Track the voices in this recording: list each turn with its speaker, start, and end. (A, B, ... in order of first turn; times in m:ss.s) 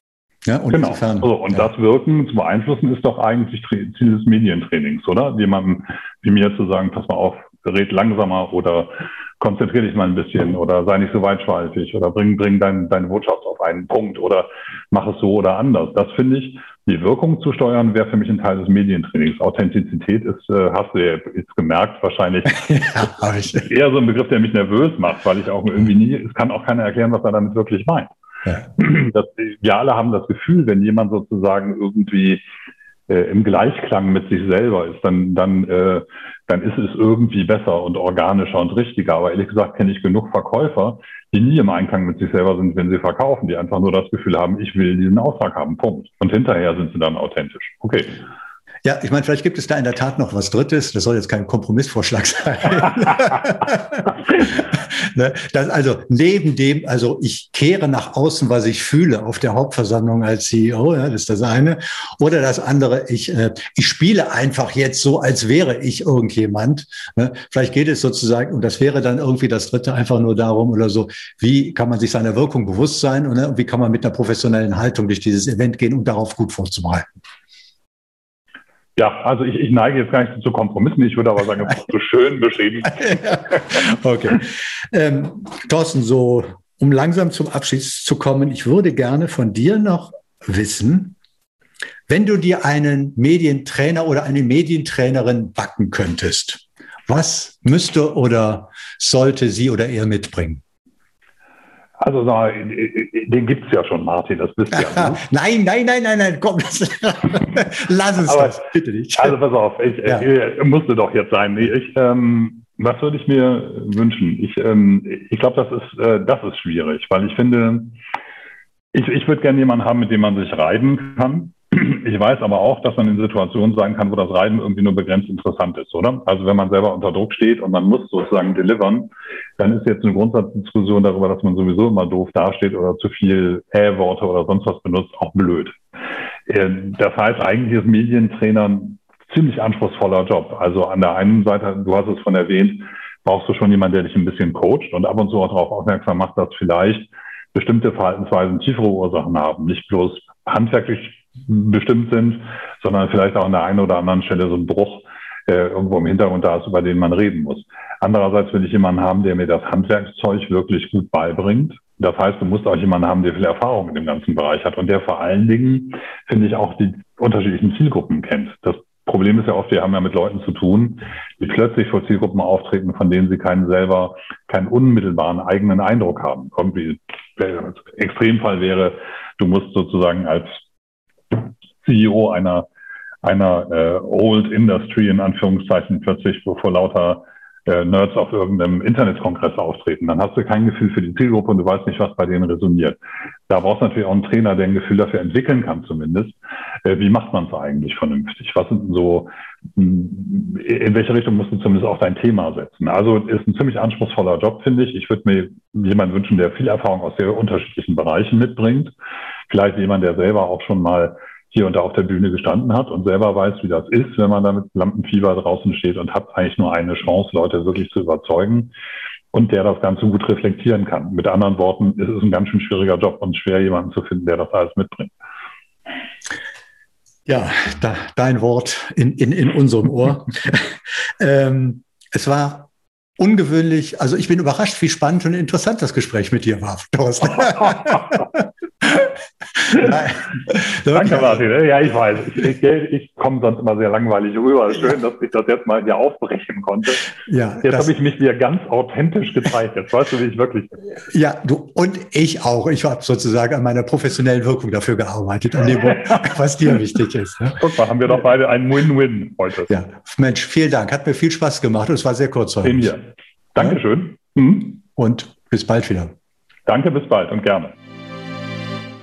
0:00.4-0:01.7 A
0:00.7-0:23.1 B
0:22.7-0:23.7 A
0:23.6-0:28.1 B
0:28.6-0:32.4 B
0:33.1-0:48.2 B
0:48.8-1:17.1 A
1:19.0-1:23.5 B
1:23.0-1:31.2 A
1:32.1-1:40.6 A
1:42.0-1:45.2 B
1:44.7-1:49.4 A
1:48.2-1:48.6 B
1:49.2-1:58.0 B
1:58.9-2:15.8 B
2:16.5-3:00.6 B
3:01.3-3:02.7 B
3:03.2-3:13.0 B
3:13.5-3:28.9 B
3:29.5-3:38.7 B
3:39.3-3:45.1 B
3:47.2-3:59.1 A
3:59.7-4:01.4 A
3:59.7-4:00.1 B
4:00.9-4:07.1 B
4:07.2-4:07.9 A
4:07.6-4:10.8 B
4:11.1-4:17.6 A
4:16.0-4:16.2 B
4:17.6-4:19.7 B
4:19.7-4:22.9 A
4:22.6-4:24.8 B
4:24.9-4:26.1 A
4:26.7-4:27.7 B